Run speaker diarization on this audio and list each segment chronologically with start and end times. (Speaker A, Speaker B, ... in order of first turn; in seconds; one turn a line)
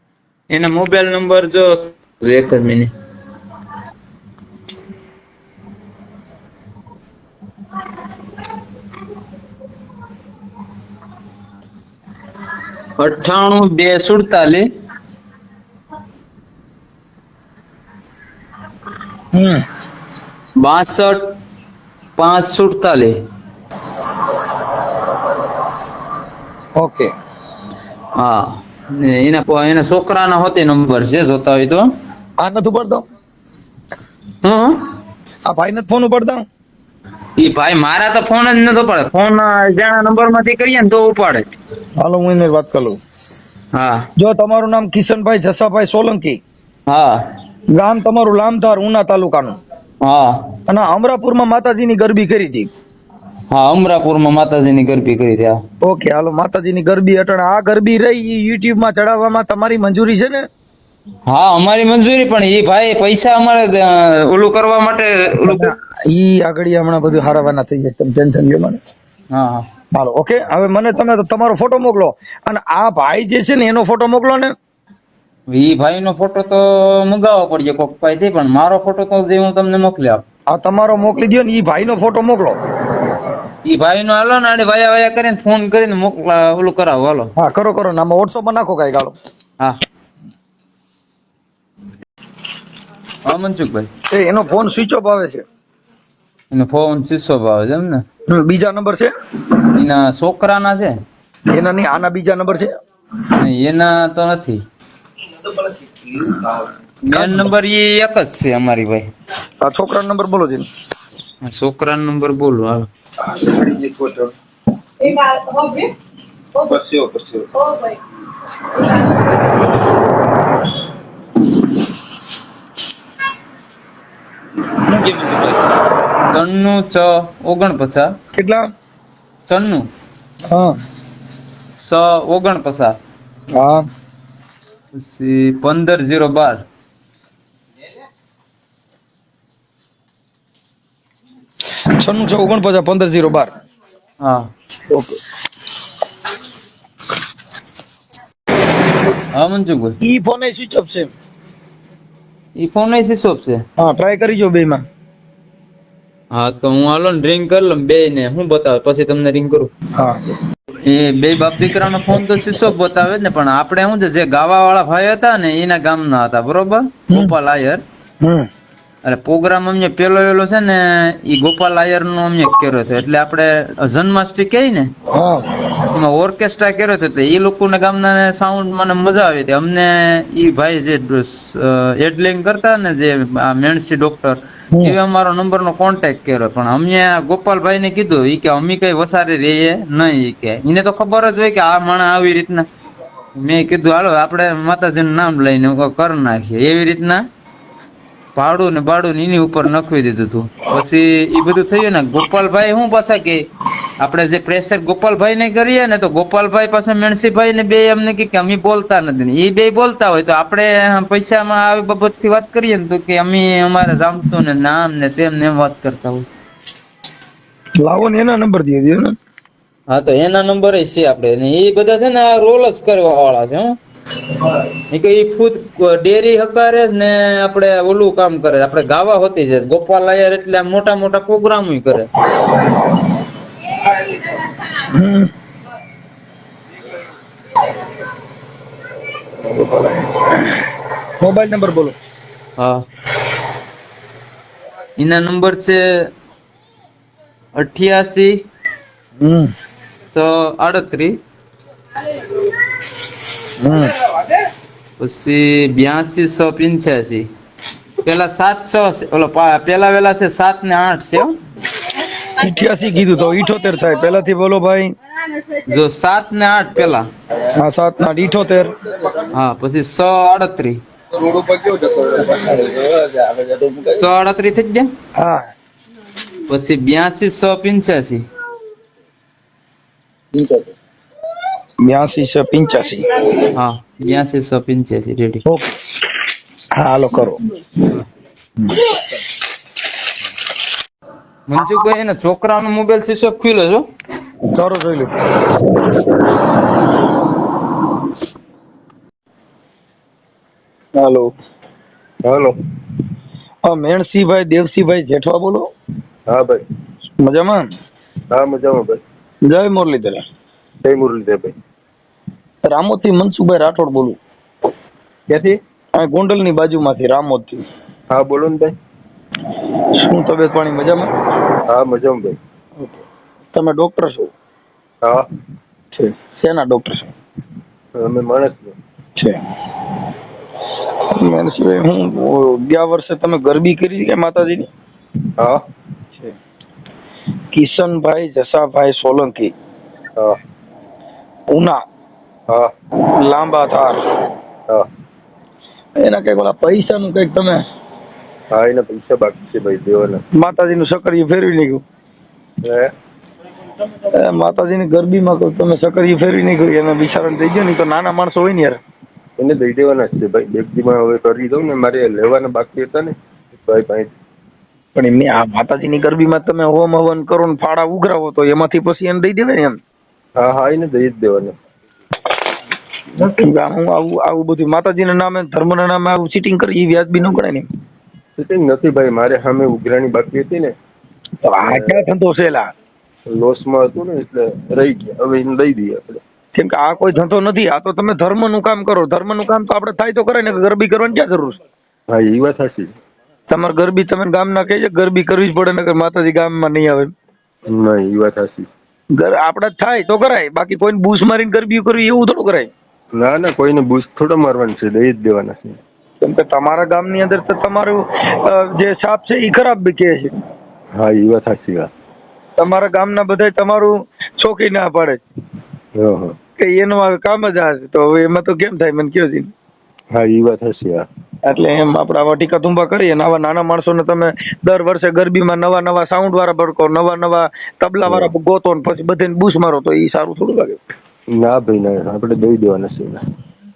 Speaker A: 0.5-2.9
Speaker A: 13.0-14.7
Speaker B: 19.3-19.6
Speaker A: 20.6-21.2
Speaker A: 22.2-23.1
Speaker B: 26.8-27.1
Speaker A: 28.2-31.9
Speaker B: 32.4-33.0
Speaker A: 34.4-34.8
Speaker B: 35.5-36.4
Speaker A: 37.4-41.5
Speaker B: 42.0-43.0
Speaker A: 43.7-44.1
Speaker B: 44.2-46.4
Speaker A: 46.9-47.2
Speaker B: 47.7-49.6
Speaker A: 50.0-50.5
Speaker B: 50.7-52.7
Speaker A: 53.5-55.6
Speaker B: 55.8-60.5
Speaker A: 61.3-65.7
Speaker B: 65.4-68.8
Speaker A: 69.3-69.6
Speaker B: 69.9-74.5
Speaker A: 75.5-80.2
Speaker B: 80.5-82.6
Speaker A: 83.6-87.3
Speaker B: 87.4-89.1
Speaker A: 93.2-93.9
Speaker B: 94.1-95.4
Speaker A: 96.5-98.0
Speaker B: 98.3-99.1
Speaker A: 99.7-101.0
Speaker B: 101.5-102.7
Speaker A: 103.4-104.6
Speaker B: 106.1-107.5
Speaker A: 107.1-109.1
Speaker B: 109.6-110.7
Speaker A: 111.4-112.9
Speaker B: 113.2-114.3
Speaker B: 115.0-115.7
Speaker B: 116.5-117.7
Speaker B: 124.7-125.6
Speaker A: 126.3-128.1
Speaker B: 128.3-128.7
Speaker A: 129.5-129.9
Speaker B: 130.5-130.8
Speaker A: 131.8-132.9
Speaker B: 133.5-133.9
Speaker A: 134.9-136.6
Speaker B: 141.9-143.5
Speaker B: 144.9-145.2
Speaker A: 149.3-149.9
Speaker B: 150.0-151.1
Speaker A: 152.6-153.6
Speaker B: 153.8-154.8
Speaker A: 156.3-159.7
Speaker B: 159.9-160.2
Speaker A: 160.8-167.8
Speaker B: 168.2-168.5
Speaker A: 169.0-174.9
Speaker B: 175.1-175.8
Speaker A: 175.9-192.7
Speaker A: 193.3-197.2
Speaker A: 198.3-203.5
Speaker A: 204.0-216.2
Speaker B: 217.8-219.1
Speaker A: 219.9-223.8
Speaker A: 224.9-232.1
Speaker B: 234.9-235.3
Speaker B: 239.4-240.7
Speaker B: 241.2-241.9
Speaker A: 242.6-242.8
Speaker A: 245.0-246.1
Speaker A: 247.6-248.3
Speaker B: 249.2-249.5
Speaker A: 250.1-251.2
Speaker B: 253.6-253.9
Speaker A: 255.0-257.3
Speaker A: 258.0-261.4
Speaker B: 262.3-264.9
Speaker A: 265.6-267.1
Speaker B: 267.5-269.2
Speaker A: 269.3-270.8
Speaker B: 271.1-274.0
Speaker A: 274.0-274.9
Speaker B: 275.1-275.4
Speaker A: 276.5-278.2
Speaker B: 280.3-280.7
Speaker B: 281.8-283.5
Speaker A: 283.5-285.4
Speaker B: 285.4-285.8
Speaker B: 286.7-287.4
Speaker B: 288.6-289.0
Speaker A: 291.5-293.8
Speaker B: 294.5-295.6
Speaker B: 300.9-301.3
Speaker C: 302.2-302.6
Speaker B: 303.6-305.7
Speaker C: 306.3-306.6
Speaker B: 307.2-307.7
Speaker C: 308.3-309.0
Speaker B: 309.4-310.2
Speaker C: 310.8-311.5
Speaker B: 312.6-314.2
Speaker C: 315.3-315.6
Speaker B: 315.9-317.6
Speaker C: 318.1-318.7
Speaker B: 319.9-321.1
Speaker C: 321.7-322.4
Speaker B: 323.5-324.3
Speaker B: 325.9-327.1
Speaker C: 327.9-328.8
Speaker B: 329.1-329.4
Speaker B: 331.1-334.7
Speaker C: 335.4-335.6
Speaker B: 337.5-339.5
Speaker B: 341.5-341.8
Speaker B: 343.1-344.2
Speaker B: 346.0-347.6
Speaker C: 348.5-350.2
Speaker B: 350.3-351.8
Speaker C: 352.6-352.9
Speaker B: 354.1-358.8
Speaker C: 359.4-364.1
Speaker B: 364.9-369.8
Speaker C: 370.4-371.6
Speaker C: 373.1-373.4
Speaker B: 373.2-377.7
Speaker C: 378.4-380.7
Speaker B: 381.4-382.7
Speaker C: 381.6-381.9
Speaker C: 383.3-386.2
Speaker B: 386.5-391.6
Speaker C: 392.1-392.9
Speaker B: 393.5-397.1
Speaker C: 397.7-398.7
Speaker B: 399.1-402.7
Speaker C: 403.1-405.8
Speaker B: 406.2-410.4
Speaker C: 410.9-411.9
Speaker B: 412.6-415.2
Speaker C: 415.9-416.4
Speaker B: 416.6-419.5
Speaker C: 420.1-421.1
Speaker B: 421.4-430.8
Speaker C: 428.1-428.3
Speaker C: 431.3-433.2